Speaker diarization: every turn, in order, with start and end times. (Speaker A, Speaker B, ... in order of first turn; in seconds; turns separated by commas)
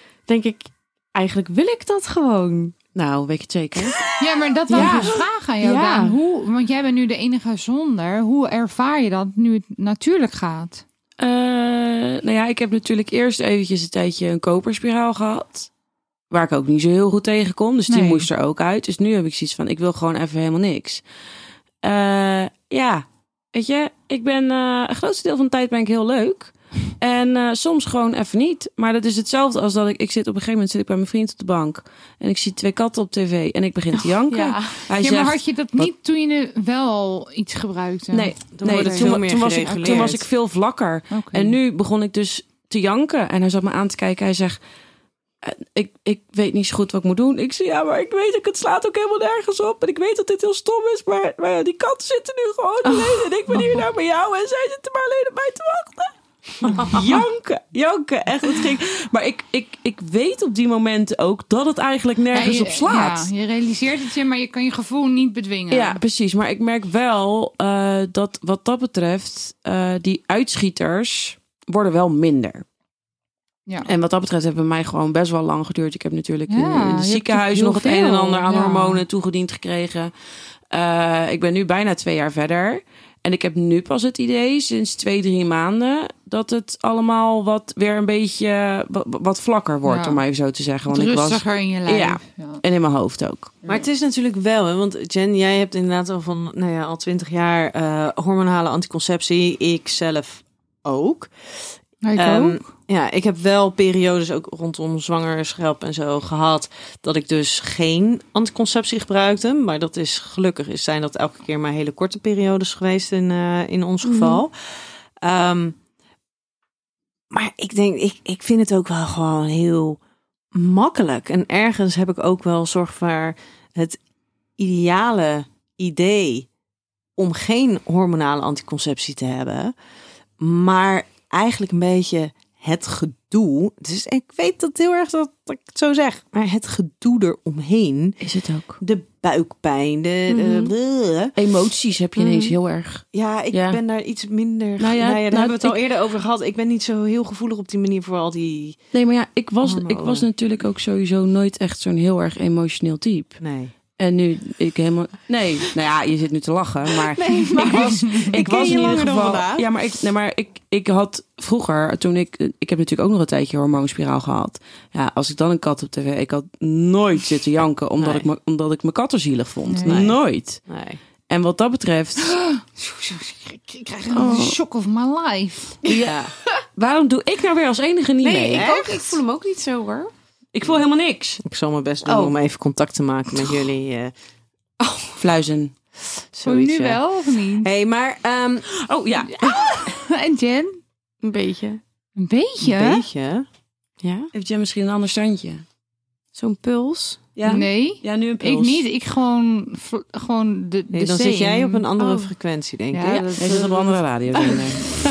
Speaker A: 0.2-2.7, Speaker B: 2.9-4.0, Speaker C: 4.2-10.8, Speaker A: 4.7-6.2, Speaker B: 4.8-5.0, Speaker B: 11.2-15.7, Speaker B: 16.3-21.0, Speaker C: 17.9-18.3, Speaker B: 21.8-35.9, Speaker A: 34.3-34.8, Speaker C: 35.0-39.2, Speaker B: 38.1-44.6, Speaker D: 38.5-40.2, Speaker C: 41.1-41.5, Speaker B: 45.4-63.3, Speaker C: 62.3-66.0, Speaker B: 65.7-72.6, Speaker B: 73.8-80.1, Speaker C: 76.5-79.0, Speaker B: 80.7-93.6, Speaker C: 89.8-90.2, Speaker C: 90.9-92.6, Speaker D: 93.7-101.3, Speaker C: 102.0-102.7, Speaker D: 102.1-114.5, Speaker A: 114.0-114.4, Speaker D: 115.2-115.8, Speaker D: 117.3-120.0, Speaker D: 120.5-124.0, Speaker D: 124.6-126.5, Speaker D: 127.2-129.7, Speaker D: 130.4-138.2, Speaker B: 138.2-138.8, Speaker D: 138.8-141.3, Speaker A: 140.3-140.7, Speaker B: 141.3-143.8, Speaker A: 142.2-142.5, Speaker D: 143.1-148.8, Speaker B: 144.8-145.8, Speaker B: 148.9-153.4, Speaker D: 149.6-150.3, Speaker D: 153.4-153.7, Speaker B: 154.0-170.6, Speaker D: 157.0-159.7, Speaker D: 168.0-168.3, Speaker C: 169.7-170.0, Speaker D: 169.8-171.0, Speaker B: 171.3-172.3, Speaker C: 172.3-175.8, Speaker B: 174.1-174.6, Speaker B: 175.8-176.2, Speaker D: 176.0-176.3, Speaker B: 176.7-178.7, Speaker A: 178.2-180.1, Speaker D: 178.5-179.2, Speaker B: 180.5-181.4, Speaker D: 181.4-184.1, Speaker A: 182.1-182.3, Speaker A: 184.8-185.1, Speaker B: 185.2-185.7, Speaker D: 186.3-188.7, Speaker C: 186.4-187.7, Speaker B: 188.7-189.9, Speaker C: 189.3-190.8, Speaker A: 191.2-191.8, Speaker C: 192.2-193.0, Speaker D: 192.6-193.4, Speaker A: 194.0-194.3, Speaker B: 194.3-195.6, Speaker A: 196.3-197.5, Speaker B: 197.3-198.8, Speaker C: 197.4-201.8, Speaker D: 200.9-203.7, Speaker A: 202.0-202.3, Speaker C: 202.9-204.6, Speaker B: 203.3-205.0